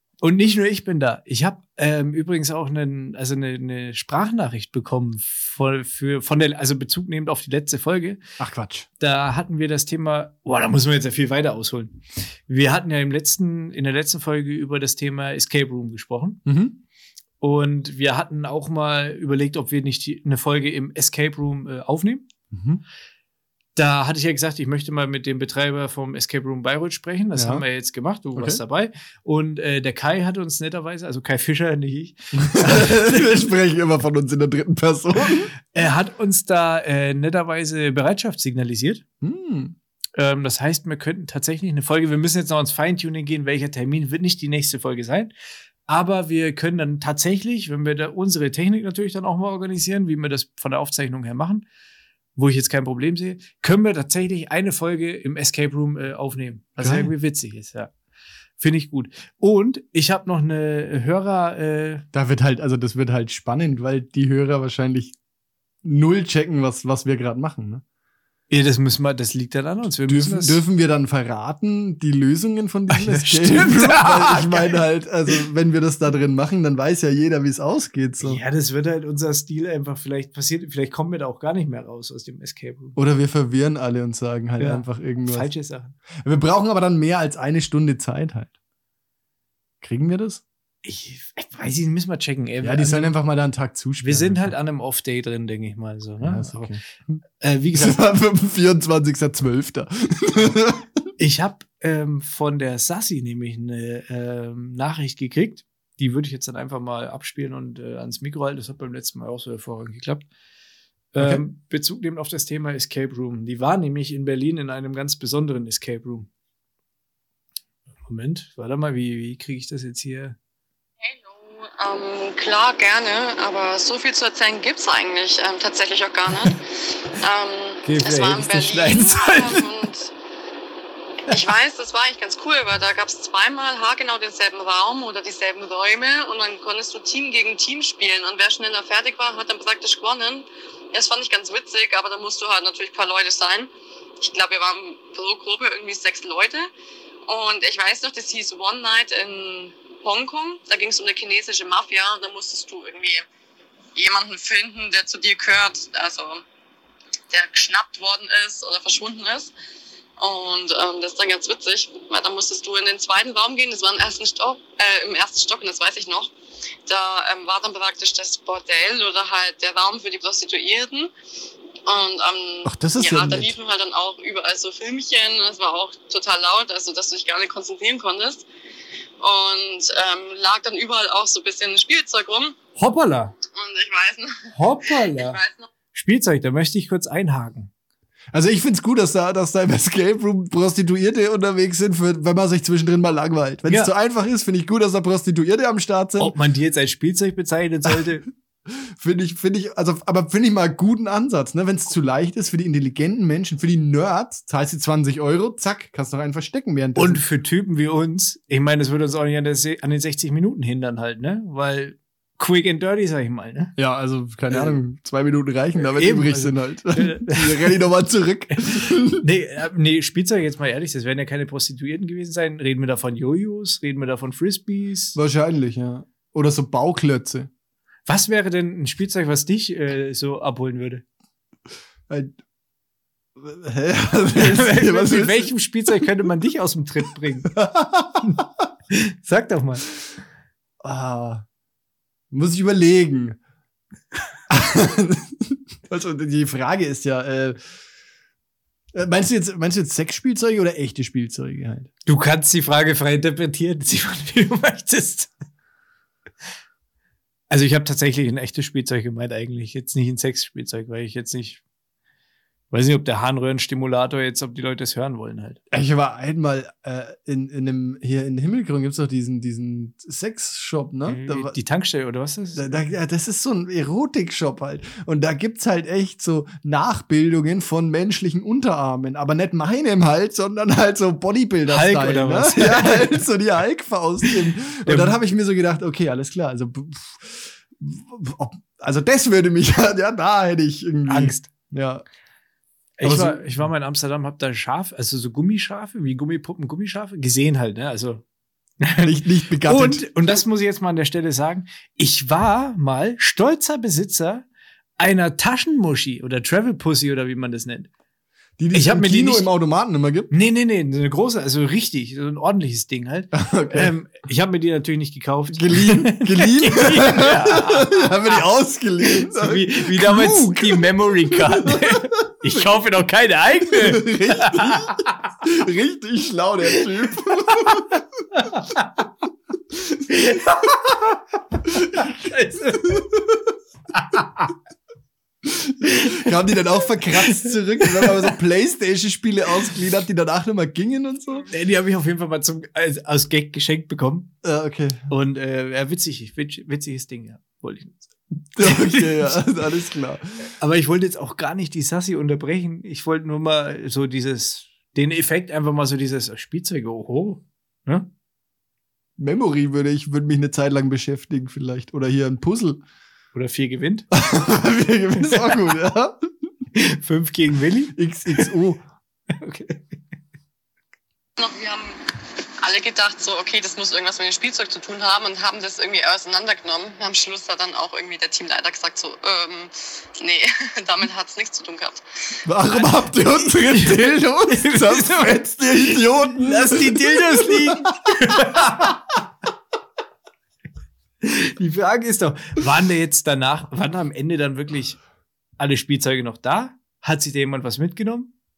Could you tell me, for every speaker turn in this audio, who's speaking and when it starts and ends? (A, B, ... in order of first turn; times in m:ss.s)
0:00.2-0:08.2 A
0:08.4-0:08.9 B
0:09.0-0:16.4 A
0:16.5-0:16.8 B
0:17.4-0:22.3 A
0:22.5-0:22.8 B
0:23.8-0:33.4 A
0:27.4-0:27.6 B
0:28.4-0:28.6 B
0:32.4-0:35.5 B
0:35.7-0:39.0 A
0:39.2-0:39.8 B
0:40.2-0:45.3 A
0:45.9-0:51.6 A
0:52.4-0:57.9 A
0:56.8-0:57.1 B
0:58.6-1:02.1 A
1:02.1-1:05.2 B
1:05.8-1:07.8 B
1:08.5-1:10.6 A
1:10.1-1:18.4 B
1:12.9-1:14.8 A
1:18.2-1:23.0 A
1:23.0-1:25.5 B
1:24.6-1:26.0 A
1:26.2-1:28.5 B
1:29.8-1:30.4 B
1:30.8-1:33.1 A
1:32.6-1:34.5 B
1:34.0-1:36.8 A
1:36.2-1:37.2 B
1:37.4-1:38.0 A
1:37.8-1:40.9 B
1:41.2-1:50.3 A
1:51.1-1:56.3 A
1:58.1-2:00.4 A
2:01.0-2:10.1 C
2:07.8-2:09.7 A
2:11.3-2:26.7 C
2:27.3-2:33.3 C
2:34.0-2:36.4 C
2:37.3-2:39.5 C
2:40.2-2:46.3 C
2:46.9-2:51.1 C
2:51.9-2:58.4 C
2:52.6-2:53.5 B
2:59.2-3:02.6 C
3:02.8-3:03.4 A
3:03.5-3:05.7 C
3:04.5-3:05.4 A
3:05.9-3:07.7 A
3:08.3-3:16.3 B
3:16.2-3:18.3 A
3:18.7-3:27.2 B
3:27.0-3:33.8 A
3:33.8-3:39.2 B
3:35.8-3:37.8 A
3:38.5-3:45.2 A
3:45.2-3:47.5 B
3:48.1-3:51.0 A
3:52.1-3:52.4 B
3:53.4-3:55.5 B
3:54.4-3:57.5 A
3:57.5-3:58.5 B
3:58.9-3:59.9 A
4:00.8-4:01.4 B
4:02.3-4:03.4 B
4:04.5-4:07.6 B
4:08.9-4:11.9 B
4:12.1-4:15.3 A
4:17.5-4:21.6 A
4:22.7-4:25.6 A
4:25.7-4:31.6 B
4:31.1-4:32.8 A
4:32.6-4:52.0 B
4:41.7-4:43.2 A
4:44.9-4:45.2 A
4:51.1-4:51.5 A
4:53.0-4:58.2 A
4:53.0-4:53.5 B
4:58.8-5:04.4 A
4:59.0-5:00.4 B
5:05.0-5:07.9 A
5:08.6-5:10.3 B
5:08.7-5:09.5 A
5:10.3-5:18.4 A
5:13.3-5:13.9 B
5:15.5-5:22.7 B
5:19.0-5:25.3 A
5:23.6-5:28.2 B
5:27.5-5:29.0 A
5:30.1-5:33.1 A
5:32.9-5:33.4 B
5:33.9-5:34.5 A
5:35.4-5:41.5 B
5:35.8-5:36.3 A
5:37.0-5:38.3 A
5:41.5-5:44.3 A
5:44.4-5:45.1 B
5:45.1-5:49.4 A
5:48.6-5:50.4 B
5:50.5-5:58.1 A
5:59.2-6:02.8 B
6:03.3-6:04.1 A
6:04.1-6:06.3 B
6:05.3-6:05.6 A
6:06.7-6:08.5 A
6:08.0-6:08.8 B
6:09.3-6:10.0 A
6:11.4-6:22.0 C
6:22.5-6:28.9 B
6:23.4-6:29.0 A
6:31.2-6:35.0 A
6:35.6-6:38.3 A